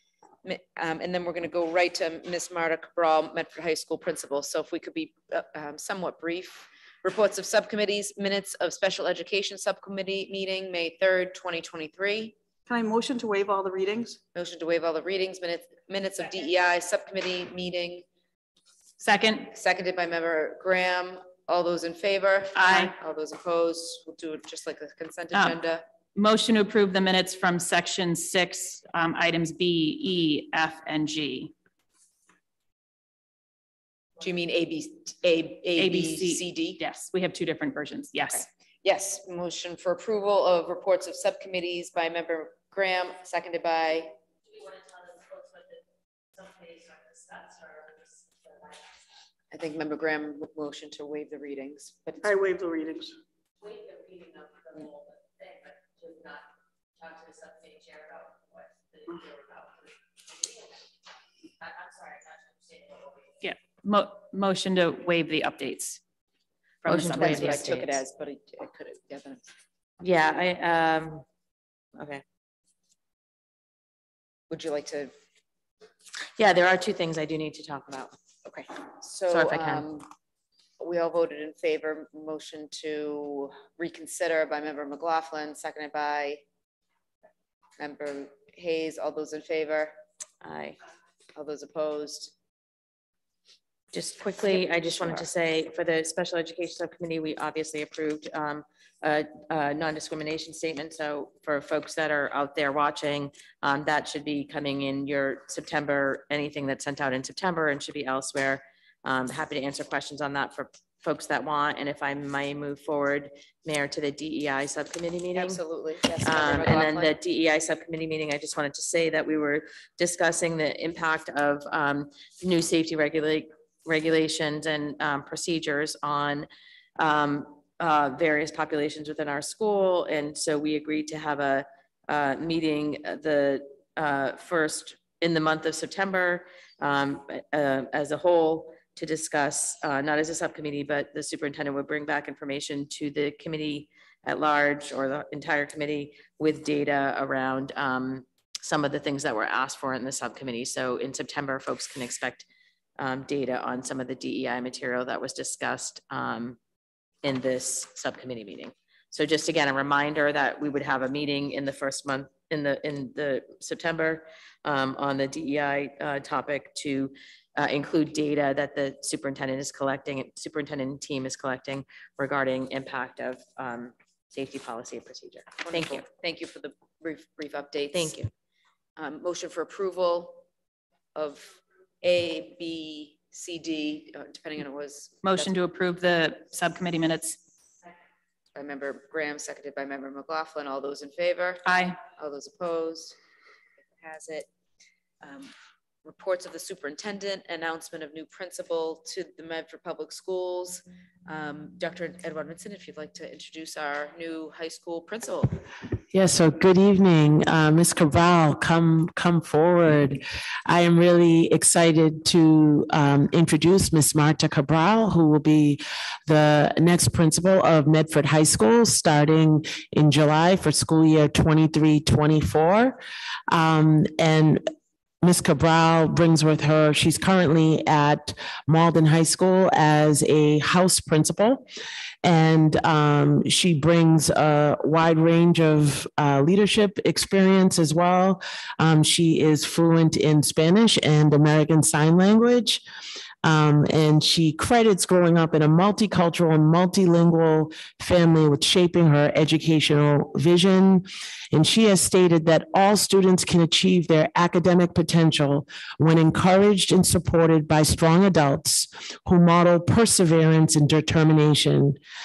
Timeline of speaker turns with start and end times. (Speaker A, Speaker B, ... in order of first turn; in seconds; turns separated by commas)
Speaker A: 0.5-12.3, Speaker B: 12.7-14.2, Speaker A: 14.3-18.1, Speaker C: 19.0-19.5, Speaker A: 19.5-25.8, Speaker C: 22.6-22.9, Speaker C: 25.3-25.6, Speaker C: 26.1-31.5, Speaker A: 34.2-36.8, Speaker C: 35.8-38.5, Speaker A: 38.3-44.1, Speaker D: 44.6-45.6, Speaker D: 46.4-48.7, Speaker A: 49.5-52.3, Speaker B: 52.2-53.1, Speaker D: 53.6-56.4, Speaker D: 57.0-60.7, Speaker D: 61.6-63.2, Speaker C: 63.4-66.0, Speaker A: 66.8-69.5, Speaker C: 66.9-67.7, Speaker D: 66.9-68.0, Speaker D: 70.0-71.2, Speaker D: 72.0-72.2, Speaker A: 74.5-75.1, Speaker D: 76.4-78.2, Speaker A: 78.5-80.1, Speaker D: 79.3-79.9, Speaker A: 80.8-86.4, Speaker A: 87.8-90.0, Speaker D: 90.4-90.8, Speaker A: 91.3-92.3, Speaker D: 93.9-115.6, Speaker A: 115.3-117.1, Speaker D: 116.2-152.4, Speaker D: 153.0-156.6, Speaker D: 157.2-176.1, Speaker A: 175.6-178.2, Speaker D: 177.9-178.3, Speaker A: 179.0-180.4, Speaker A: 181.2-185.5, Speaker C: 185.2-187.4, Speaker A: 188.6-193.2, Speaker C: 191.7-192.0, Speaker A: 193.9-194.5, Speaker A: 195.2-195.5, Speaker A: 196.1-205.6, Speaker E: 206.1-224.7, Speaker E: 225.2-231.6, Speaker E: 232.2-242.8, Speaker E: 243.4-262.0